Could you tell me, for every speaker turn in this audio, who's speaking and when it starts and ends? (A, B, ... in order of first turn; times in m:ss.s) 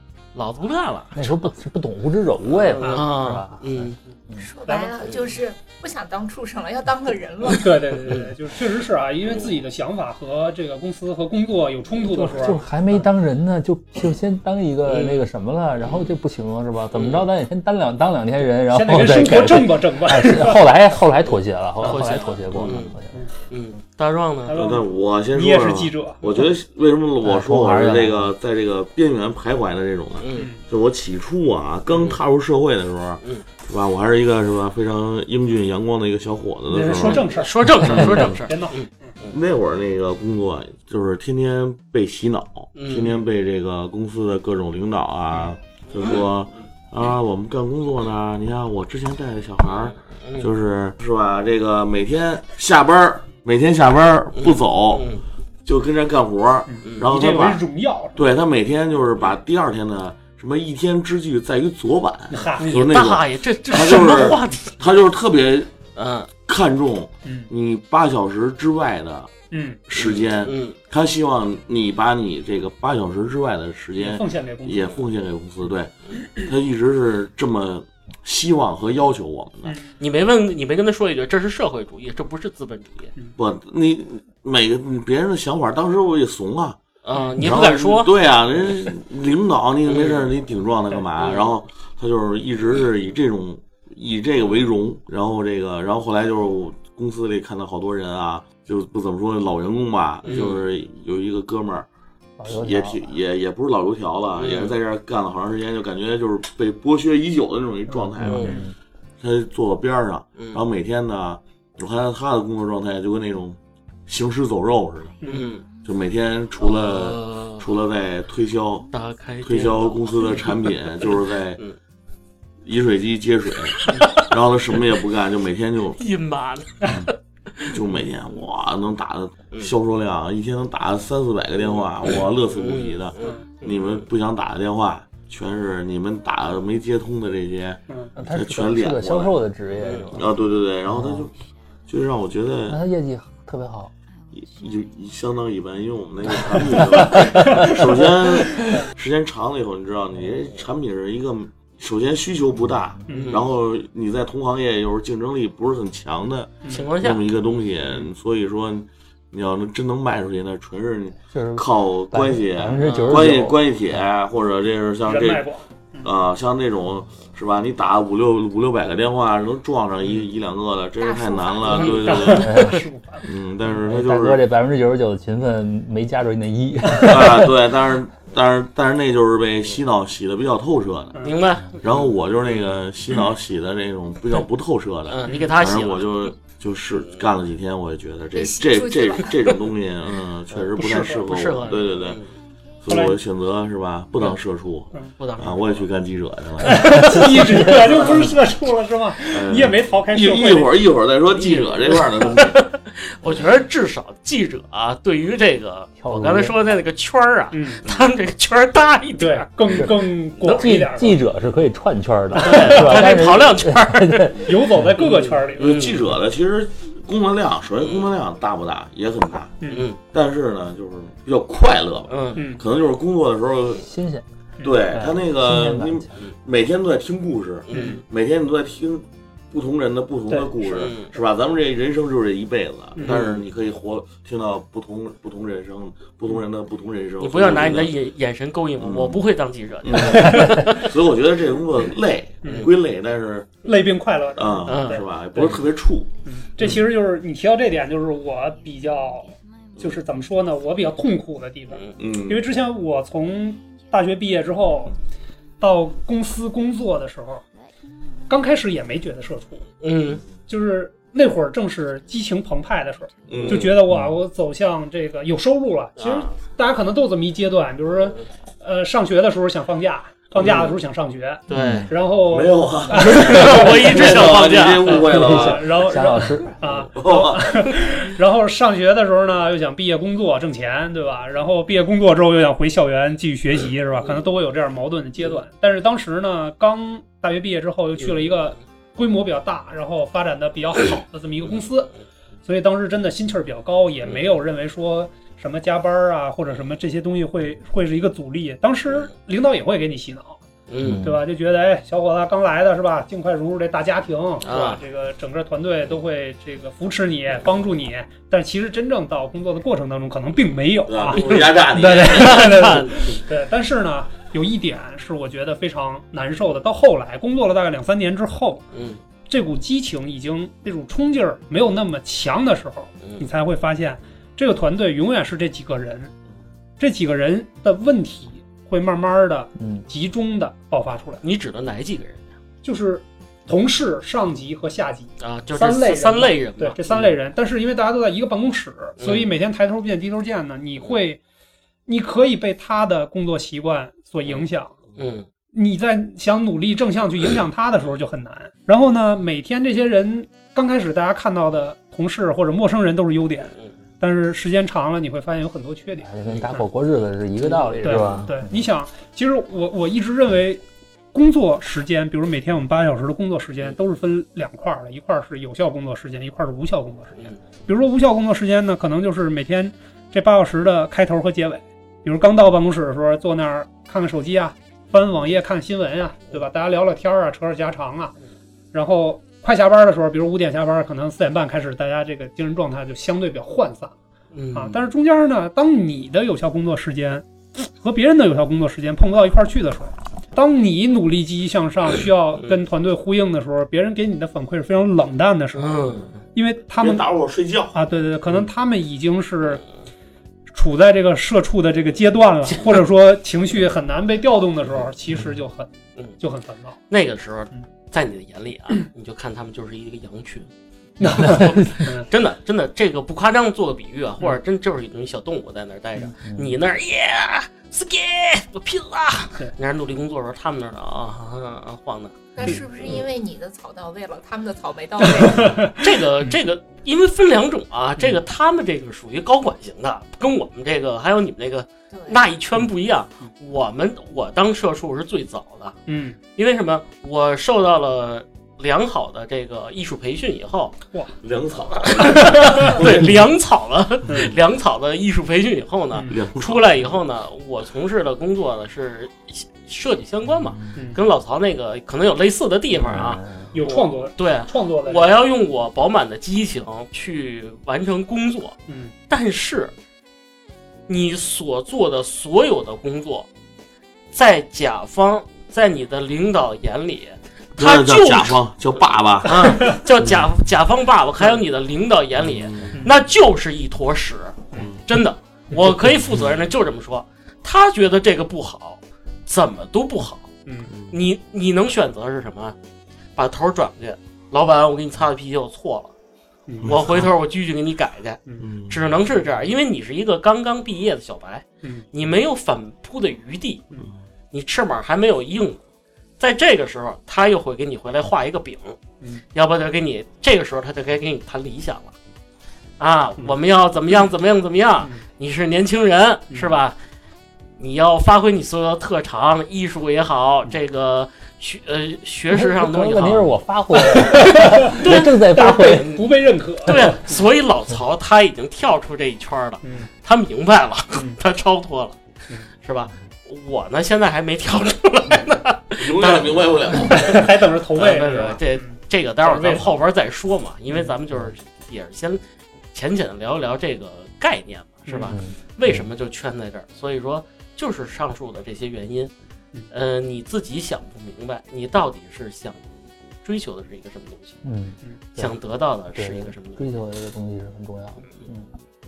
0:00.3-0:01.5 A
0:01.1-0:04.5 B
0:02.5-0:04.0 A
0:02.8-0:03.1 C
0:04.4-0:07.9 D
0:04.6-0:05.0 C
0:07.5-0:12.6 C
0:12.0-0:23.2 B
0:14.9-0:15.2 A
0:16.9-0:17.2 A
0:18.6-0:20.7 C
0:21.2-0:22.9 A
0:23.5-0:24.6 A
0:24.5-0:26.3 C
0:24.5-0:37.2 E
0:27.2-0:28.3 B
0:30.2-0:30.5 A
0:30.3-0:30.6 C
0:36.7-0:39.1 C
0:37.0-0:39.4 A
0:37.8-0:38.1 B
0:37.9-0:38.2 E
0:39.3-0:55.1 E
0:42.7-0:43.1 A
0:49.9-0:50.5 A
0:54.4-0:55.2 A
0:55.6-0:57.6 E
0:56.7-0:58.2 C
0:56.8-0:57.1 A
0:58.2-1:05.7 E
1:02.3-1:02.9 C
1:02.6-1:04.8 A
1:05.9-1:06.3 A
1:06.4-1:09.3 E
1:07.2-1:07.5 C
1:09.5-1:09.8 C
1:09.9-1:19.8 E
1:10.0-1:10.8 A
1:14.0-1:15.0 C
1:19.6-1:20.0 C
1:20.0-1:23.1 A
1:23.4-1:26.8 E
1:27.0-1:28.1 A
1:27.4-1:41.9 E
1:29.9-1:30.3 A
1:31.2-1:31.6 A
1:40.2-1:40.6 A
1:42.4-1:43.2 B
1:42.5-1:48.6 E
1:44.4-1:44.8 A
1:48.2-1:48.7 B
1:48.2-1:48.6 A
1:48.4-1:48.6 C
1:49.2-1:55.2 E
1:55.2-1:55.6 A
1:55.8-1:58.9 E
1:56.6-1:57.6 A
1:58.9-2:01.8 A
1:59.4-2:01.6 E
2:02.6-2:06.0 E
2:03.8-2:04.3 A
2:06.0-2:07.8 A
2:06.8-2:07.1 E
2:07.7-2:19.4 E
2:12.0-2:14.0 A
2:18.2-2:20.3 B
2:19.8-2:20.1 A
2:20.1-2:21.3 E
2:20.8-2:21.3 B
2:21.9-2:22.8 E
2:22.7-2:23.9 B
2:24.3-2:45.5 E
2:27.1-2:27.7 C
2:33.1-2:33.4 C
2:33.1-2:33.4 A
2:36.7-2:37.2 A
2:41.3-2:43.6 B
2:42.8-2:43.3 A
2:45.1-2:46.1 C
2:46.0-2:52.6 E
2:51.0-2:52.4 D
2:51.7-2:52.8 A
2:52.0-2:53.3 C
2:52.4-2:52.8 B
2:53.2-2:54.4 E
2:53.7-2:57.5 B
2:56.9-3:01.2 E
3:01.2-3:02.1 A
3:01.8-3:12.2 E
3:05.1-3:06.3 A
3:08.3-3:09.5 D
3:10.8-3:12.3 A
3:12.8-3:17.1 E
3:12.9-3:13.2 C
3:15.2-3:15.9 A
3:16.6-3:20.8 C
3:19.3-3:22.6 E
3:21.3-3:30.6 A
3:26.0-3:26.5 B
3:27.5-3:27.8 C
3:29.2-3:31.2 C
3:29.8-3:34.9 B
3:32.4-3:36.0 A
3:32.4-3:33.2 C
3:34.4-3:35.8 C
3:35.6-3:43.8 E
3:37.8-3:38.1 A
3:39.6-3:39.9 C
3:39.7-3:40.0 A
3:42.1-3:42.4 A
3:42.4-3:42.6 C
3:43.8-3:44.2 B
3:44.6-3:57.9 E
3:44.9-3:46.2 B
3:47.7-3:48.0 A
3:47.7-3:48.0 C
3:50.3-3:50.8 C
3:50.7-3:51.1 A
3:53.0-3:53.4 A
3:57.2-4:00.9 A
3:58.8-3:59.2 E
3:59.8-4:03.6 E
4:00.1-4:00.7 C
4:02.4-4:02.7 C
4:02.4-4:02.7 A
4:03.6-4:05.6 C
4:04.4-4:06.8 E
4:04.7-4:05.0 A
4:06.2-4:14.9 C
4:12.0-4:12.4 E
4:15.6-4:17.4 C
4:18.3-4:19.7 C
4:19.8-4:20.2 A
4:20.5-4:34.2 C
4:23.3-4:23.8 E
4:23.9-4:24.2 B
4:26.0-4:26.3 A
4:30.4-4:30.7 E
4:31.5-4:31.9 A
4:31.5-4:31.9 B
4:32.3-4:35.9 E
4:32.9-4:35.1 A
4:34.8-4:51.9 C
4:35.1-4:36.5 B
4:36.9-4:37.8 E
4:52.4-5:00.4 C
5:00.7-5:01.0 A
5:00.8-5:01.2 B
5:01.0-5:18.6 C
5:04.4-5:04.8 A
5:10.9-5:12.6 E
5:11.1-5:13.2 A
5:18.7-5:19.0 A
5:19.3-5:26.1 C
5:26.8-5:31.2 C
5:29.6-5:29.8 B
5:31.2-5:32.2 A
5:32.6-5:41.2 C
5:35.2-5:37.1 A
5:39.0-5:39.3 A
5:41.9-5:44.8 C
5:45.0-5:45.3 A
5:45.5-5:56.6 C
5:56.0-5:58.7 B
5:57.7-5:58.3 A
5:57.8-6:00.6 C
6:01.1-6:18.2 C
6:18.7-6:23.9 C
6:24.3-6:24.8 A
6:24.5-6:37.0 C
6:35.6-6:36.2 A
6:36.8-6:37.8 E
6:37.7-6:39.6 C
6:40.5-6:46.8 C
6:46.9-6:50.5 A
6:51.0-6:52.0 C
6:51.1-7:03.0 A
6:51.2-6:51.7 B
6:56.2-6:56.6 B
7:02.4-7:05.6 D
7:05.2-7:05.8 C
7:05.7-7:15.8 A
7:11.9-7:12.2 D
7:15.9-7:16.2 C
7:16.4-7:20.8 A
7:21.2-7:23.2 E
7:21.9-7:38.6 A
7:22.5-7:22.8 C
7:24.1-7:24.3 C
7:26.0-7:26.9 E
7:32.7-7:33.6 B
7:33.5-7:35.2 C
7:38.7-7:38.9 C
7:39.1-7:39.7 A
7:40.9-7:43.3 A
7:44.1-7:48.4 A
7:47.6-7:50.2 E
7:49.2-8:00.3 A
7:52.2-7:52.8 E
7:54.5-7:54.8 E
8:00.7-8:01.0 E
8:00.9-8:02.6 A
8:03.2-8:05.9 A
8:06.6-8:07.1 E
8:06.6-8:13.6 A
8:08.4-8:08.9 E
8:11.6-8:11.9 C
8:14.3-8:15.6 A
8:16.2-8:18.8 A
8:19.3-8:21.9 A
8:22.8-8:26.8 A
8:27.6-8:33.3 A
8:32.3-8:35.9 B
8:33.7-8:37.2 C
8:34.7-8:36.0 A
8:36.6-8:42.0 A
8:39.6-8:39.9 C
8:42.6-8:47.1 A
8:45.8-8:47.2 E
8:46.8-8:49.7 C
8:47.7-8:52.2 A
8:52.7-8:59.1 A
8:54.9-8:55.2 C
8:55.1-8:55.9 B
8:59.7-9:02.7 A
9:03.2-9:04.4 A
9:04.4-9:05.4 B
9:05.2-9:06.6 A
9:05.9-9:08.5 B